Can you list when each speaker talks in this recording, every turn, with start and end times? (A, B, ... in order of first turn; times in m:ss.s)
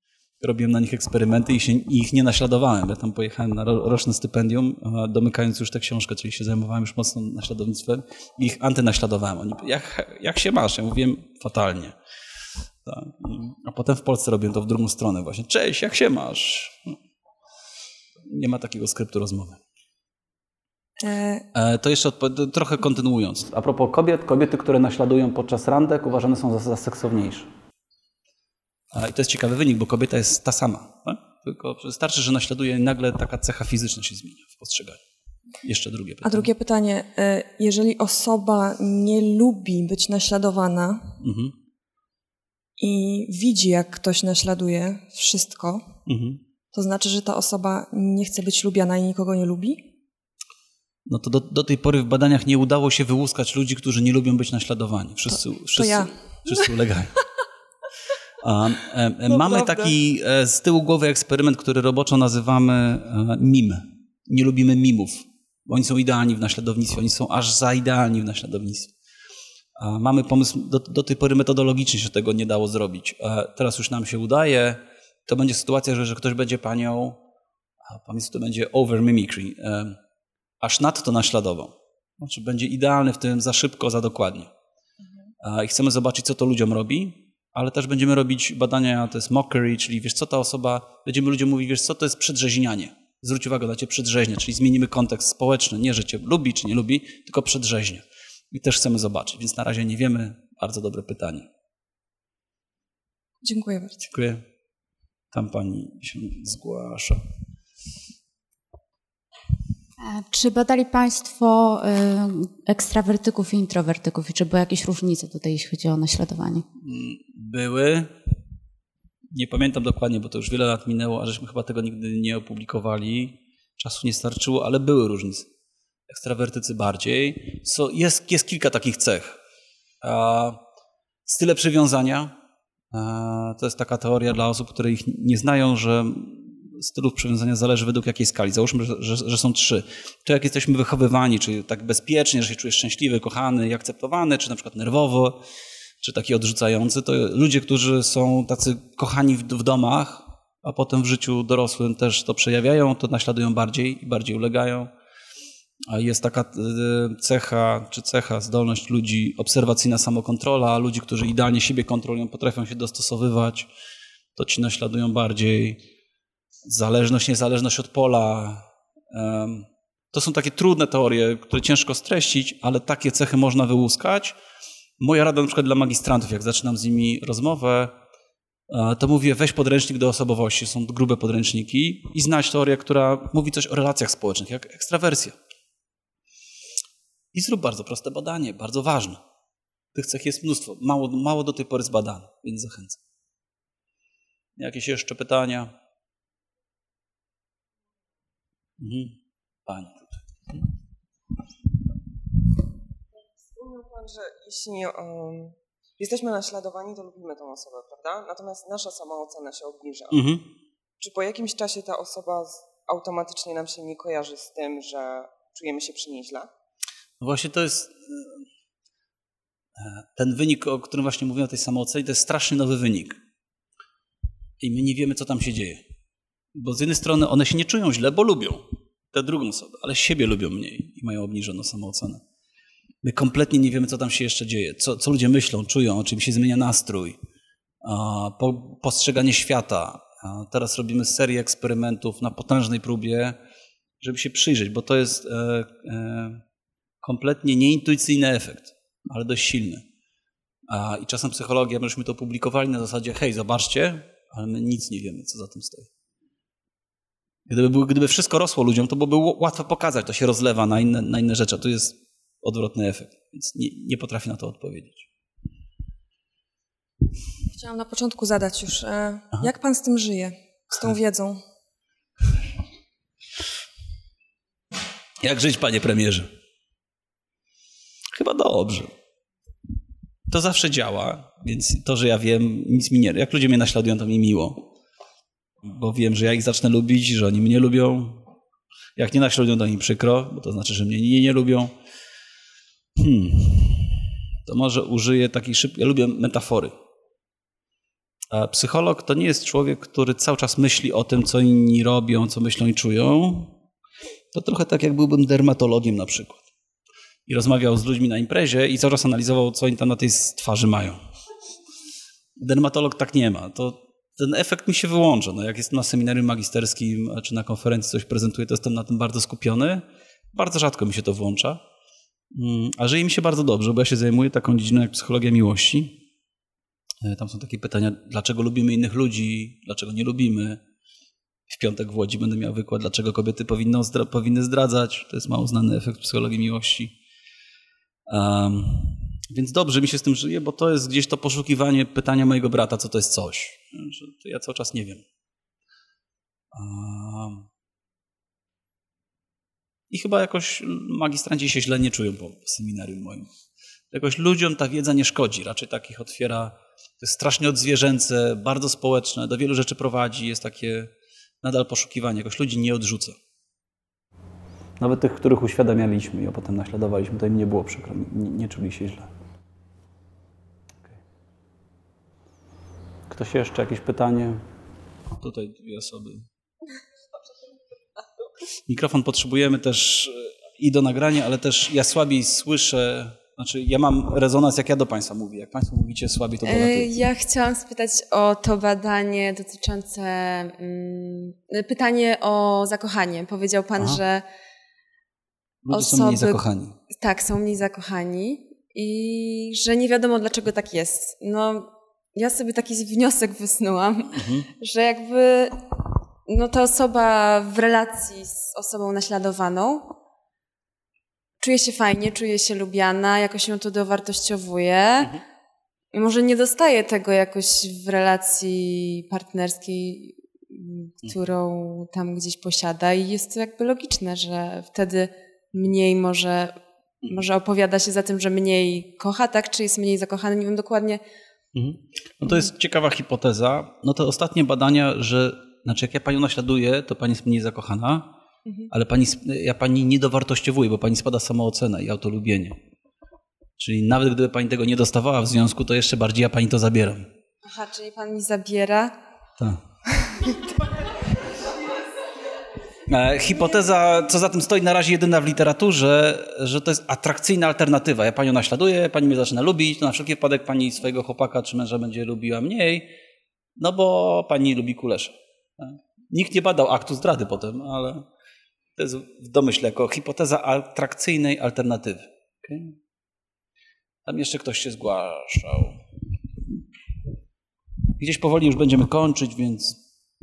0:00.4-0:12.0 A
0:12.8-0:17.0 A
0:18.2-0:19.6 A
0:21.0-0:21.4 B
0:21.5-0:27.5 A
0:28.9-0:35.0 A
0:35.6-0:36.5 A
0:36.2-0:41.2 B
0:41.2-0:41.6 A
0:42.8-0:45.8 B
0:46.1-0:46.4 A
0:46.7-0:49.9 B
0:51.1-0:57.2 A
0:55.7-0:56.7 B
0:58.4-1:08.9 A
0:59.3-0:59.9 B
1:09.8-1:17.2 A
1:17.8-1:20.0 A
1:20.6-1:24.5 A
1:25.4-1:41.5 A
1:43.4-1:44.0 B
1:44.0-1:44.4 A
1:45.3-1:47.2 A
1:50.0-1:56.6 C
1:56.8-1:58.1 A
1:59.3-2:05.5 A
2:06.1-2:09.4 A
2:10.0-2:10.6 A
2:11.3-2:12.4 A
2:12.9-2:25.4 A
2:26.0-2:34.9 A
2:35.9-2:43.7 A
2:44.4-2:45.8 A
2:46.7-2:54.4 A
2:55.0-2:58.0 A
2:58.7-3:05.4 A
3:07.3-3:09.2 A
3:09.9-3:13.0 A
3:14.6-3:15.7 A
3:18.8-3:20.6 A
3:23.4-3:30.2 D
3:30.1-3:30.5 A
3:31.0-3:36.5 D
3:37.2-3:38.4 A
3:39.8-3:43.2 A
3:44.6-3:45.8 A
3:46.6-3:52.2 A
3:53.0-3:57.2 A
3:57.8-4:03.4 A
4:04.0-4:06.4 A
4:07.0-4:09.8 A
4:10.7-4:15.9 A
4:17.5-4:25.1 A
4:27.5-4:31.4 B
4:35.2-4:36.3 A
4:38.1-4:38.9 A
4:40.3-4:44.7 A
4:45.6-4:48.2 A
4:49.0-4:51.7 A
4:53.0-4:56.7 A
4:58.3-5:03.6 A
5:04.3-5:06.4 A
5:07.3-5:11.0 A
5:12.4-5:21.6 A
5:22.3-5:26.0 A
5:27.0-5:30.6 A
5:31.5-5:37.0 A
5:38.1-5:45.0 A
5:46.5-5:47.5 A
5:49.9-5:53.3 A
5:53.9-6:00.9 A
6:01.4-6:03.2 A
6:04.8-6:09.1 A
6:13.1-6:14.4 A
6:15.2-6:16.3 A
6:18.7-6:27.0 A
6:26.4-6:34.3 E
6:35.6-6:36.8 A
6:35.7-6:45.6 E
6:44.1-6:44.5 A
6:46.3-6:50.0 E
6:51.4-6:55.1 E
6:55.9-7:11.0 E
7:11.6-7:18.1 A
7:18.7-7:22.6 A
7:23.6-7:27.1 A
7:27.4-7:29.0 E
7:32.9-7:42.9 A
7:43.6-7:48.1 A
7:48.8-7:52.8 A
7:54.1-7:55.8 A
7:58.0-7:59.8 A